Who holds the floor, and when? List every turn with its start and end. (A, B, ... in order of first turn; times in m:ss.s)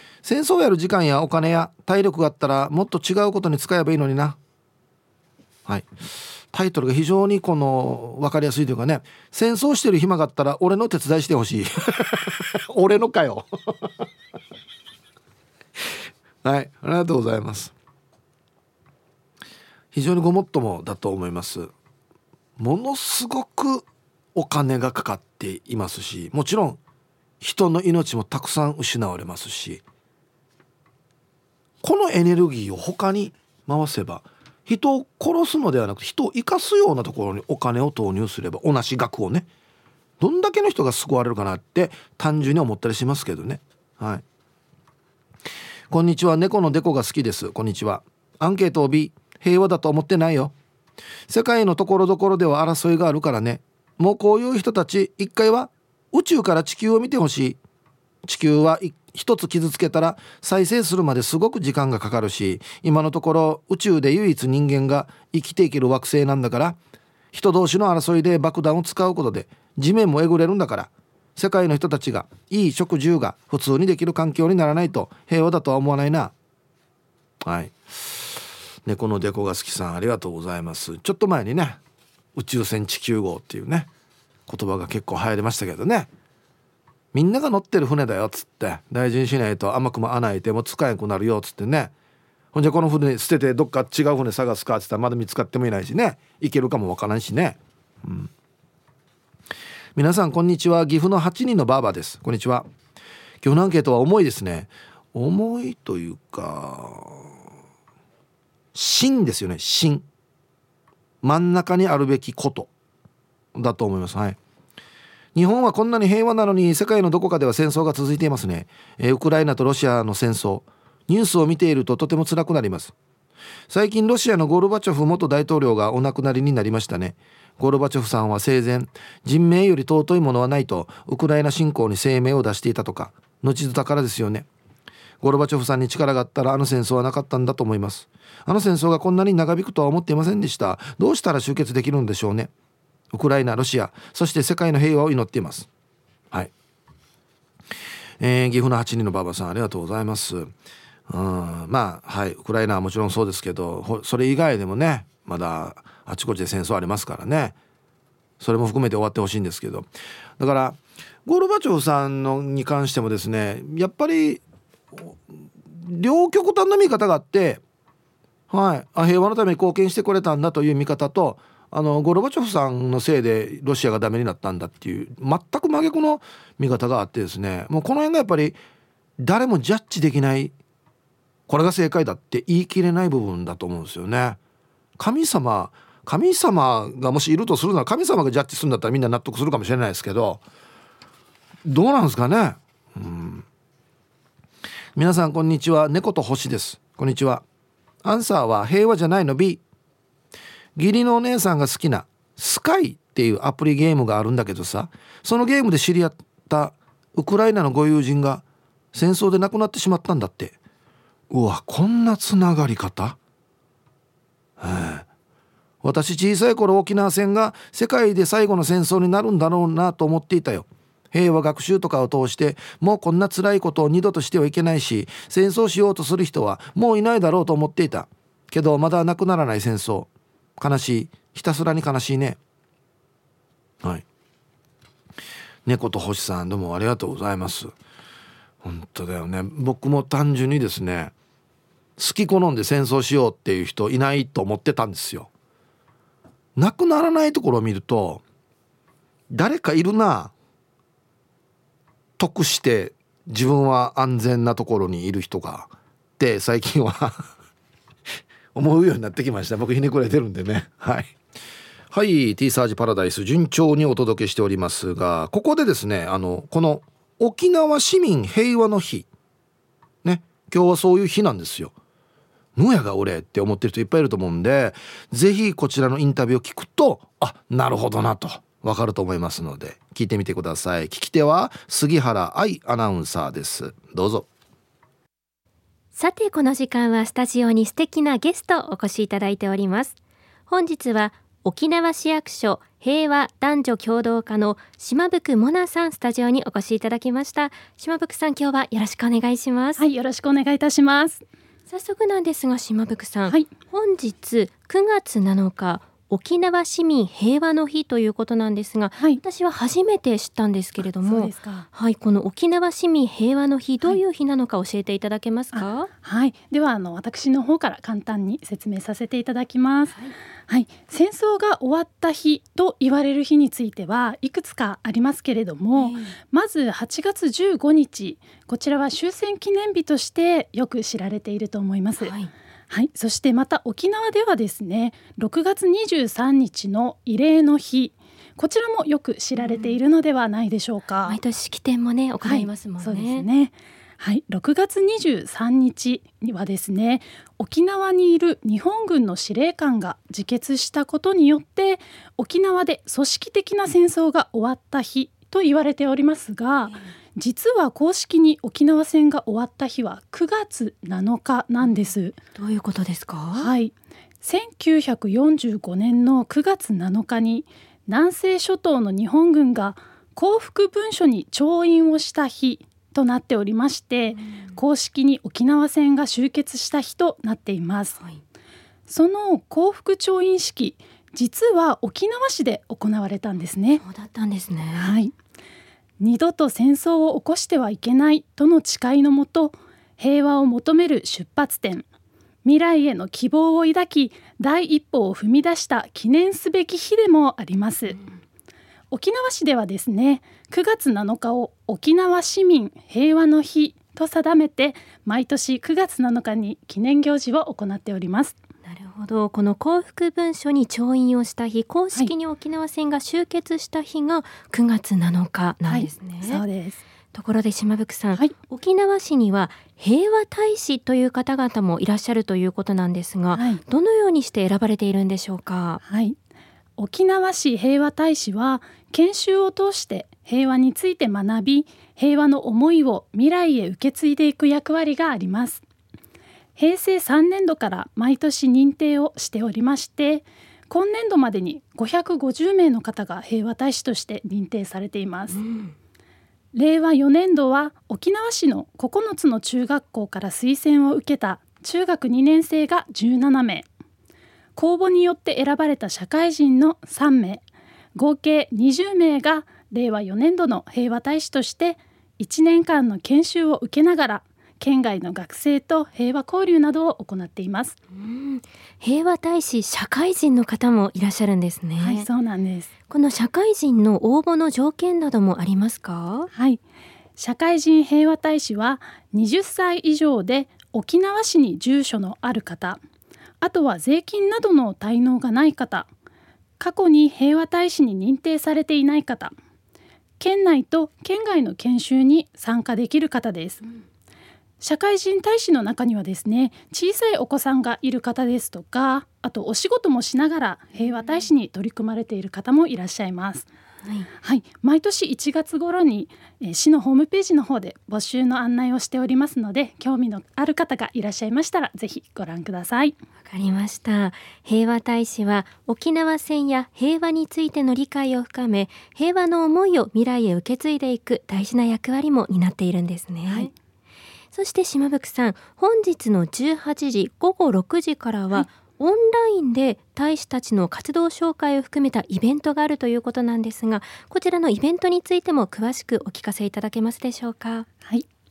0:00.2-0:04.4 A
0:06.5-0:13.9 A
0:16.4-0:17.7 A
0:19.9-0:21.7 A
0:22.6-0:26.8 A
0:27.4-0:29.8 A
0:31.8-0:39.5 A
0:40.2-0:44.2 A
0:45.9-0:50.5 A
0:51.3-0:57.6 A
0:58.2-1:06.8 A
1:07.3-1:16.3 A
1:17.4-1:21.8 A
1:22.3-1:23.9 A
1:24.5-1:26.1 A
1:27.1-1:31.9 A
1:32.5-1:38.3 A
1:40.0-1:42.7 A
1:43.4-1:47.3 A
1:48.7-1:50.0 A
1:51.2-1:52.7 A
1:53.5-1:54.4 A
1:55.3-2:02.9 A
2:03.7-2:14.4 A
2:15.2-2:22.5 A
2:23.1-2:25.7 A
2:28.2-2:30.5 A
2:31.1-2:37.5 A
2:38.4-2:44.4 A
2:45.7-2:47.6 A
2:48.5-2:58.6 A
2:59.2-3:00.5 A
3:01.5-3:04.4 A
3:05.0-3:10.4 A
3:11.6-3:13.4 A
3:15.0-3:17.4 A
3:18.0-3:19.6 A
3:20.8-3:30.6 A
3:31.3-3:33.2 A
3:34.6-3:35.1 A
3:35.8-3:52.4 A
3:55.6-3:57.7 A
3:58.6-4:01.1 A
4:02.0-4:05.3 A
4:06.6-4:08.2 A
4:09.3-4:10.3 A
4:12.2-4:17.3 A
4:18.5-4:21.1 A
4:21.9-4:29.0 A
4:30.0-4:31.7 A
4:32.6-4:44.3 A
4:45.9-4:50.0 B
4:50.5-4:59.8 B
4:59.8-5:01.2 C
5:01.7-5:15.9 B
5:11.0-5:11.7 C
5:15.5-5:20.0 C
5:20.5-5:32.1 C
5:25.7-5:26.1 B
5:32.0-5:32.3 B
5:32.7-5:41.2 C
5:39.4-5:39.8 B
5:41.0-5:43.3 B
5:42.2-6:02.2 C
6:02.4-6:03.5 B
6:03.4-6:18.0 C
6:14.1-6:14.6 B
6:18.9-6:23.8 C
6:23.8-6:24.9 B
6:24.8-6:25.1 C
6:26.0-6:31.8 C
6:32.4-6:38.0 C
6:38.9-6:48.3 C
6:48.6-6:56.4 B
6:55.7-6:56.8 C
6:57.1-7:05.8 B
7:03.3-7:03.6 C
7:05.8-7:06.2 C
7:06.8-7:15.6 C
7:16.6-7:25.4 C
7:25.3-7:25.7 B
7:26.5-7:33.6 C
7:34.6-7:47.8 C
7:47.9-7:52.1 B
7:51.8-7:52.7 C
7:52.9-7:56.3 B
7:56.3-7:56.6 C
7:57.2-8:02.8 C
8:03.4-8:05.9 C
8:06.6-8:09.3 C
8:10.2-8:13.6 C
8:14.6-8:23.5 C
8:24.2-8:32.9 C
8:33.2-8:43.5 B
8:44.3-8:57.7 B